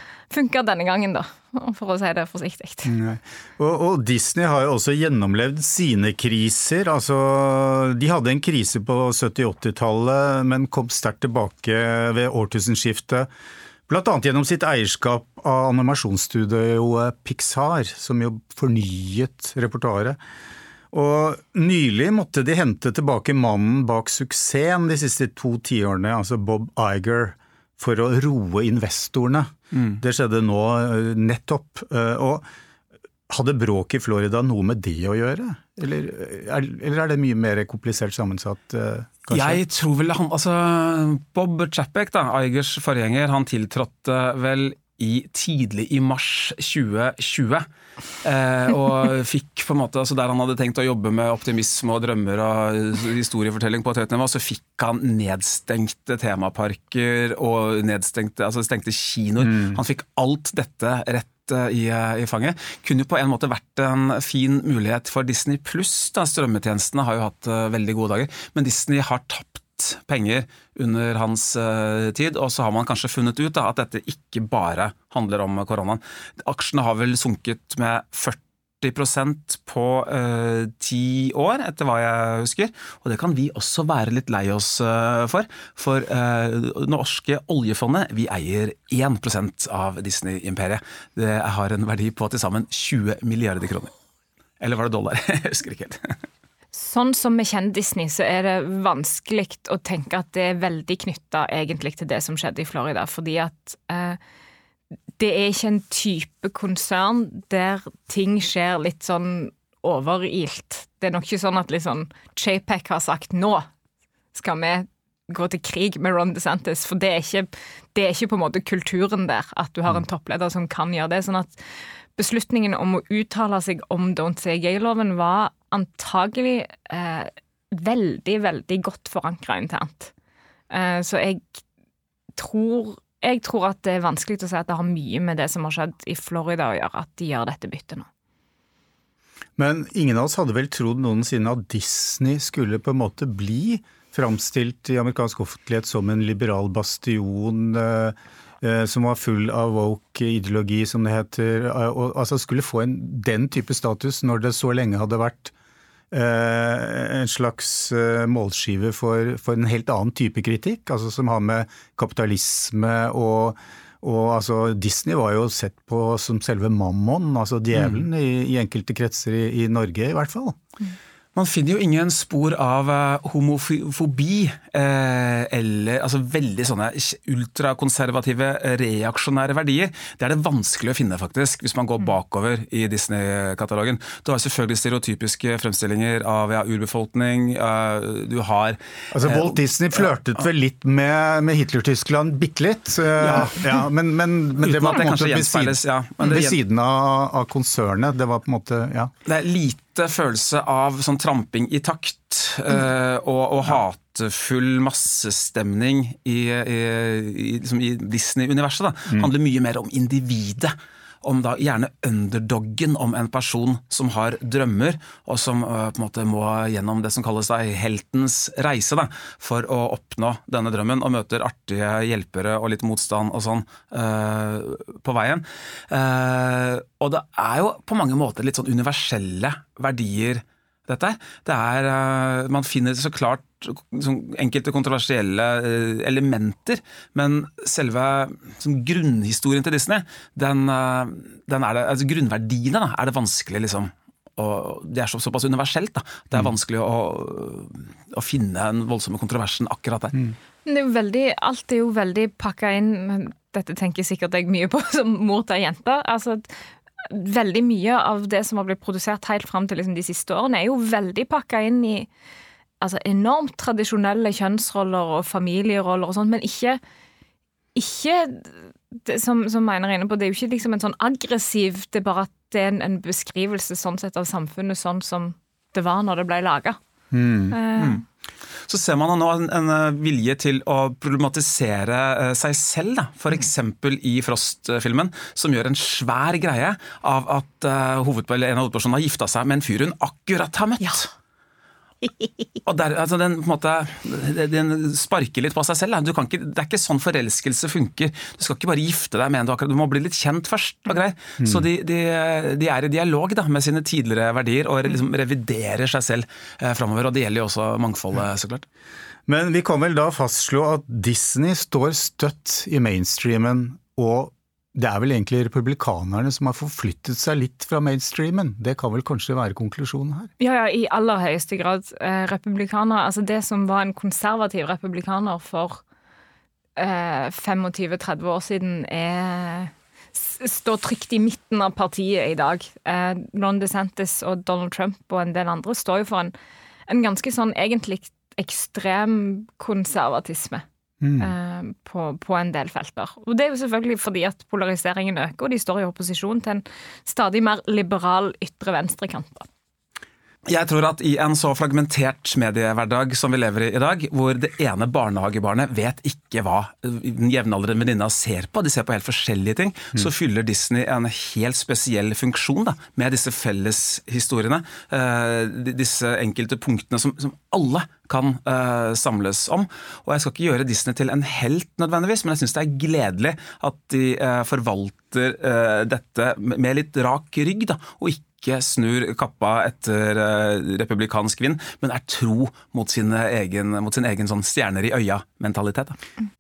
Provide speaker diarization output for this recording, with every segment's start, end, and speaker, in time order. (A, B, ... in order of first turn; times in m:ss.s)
0:00.3-0:02.9 A
0:02.9-0:13.3 B
0:13.9-0:20.2 B
0:20.9-0:32.5 B
0:29.7-0:30.0 C
0:33.3-0:39.6 B
0:39.3-0:47.7 C
0:48.2-1:33.9 C
0:59.4-0:59.8 B
1:34.6-1:36.2 C
1:36.7-1:44.2 A
1:45.2-1:53.7 A
1:54.3-2:01.6 A
2:02.2-2:10.1 A
2:10.7-2:11.6 A
2:12.4-2:18.1 A
2:19.6-2:35.5 B
2:36.1-2:50.6 B
2:47.8-2:48.0 C
2:51.4-3:10.1 C
3:09.1-3:19.1 B
3:13.2-3:13.8 C
3:14.6-3:16.6 C
3:19.3-4:10.2 C
4:10.7-4:22.1 A
4:22.8-4:26.8 A
4:27.8-4:36.8 A
4:37.1-4:37.6 B
4:37.5-4:38.0 A
4:37.8-4:38.0 C
4:38.7-4:51.1 C
4:52.7-5:08.7 C
5:01.4-5:01.7 B
5:09.3-5:20.3 B
5:20.4-5:25.8 A
5:26.8-5:36.3 A
5:36.9-5:40.6 A
5:41.0-5:41.3 B
5:41.2-5:49.5 A
5:50.5-6:26.0 C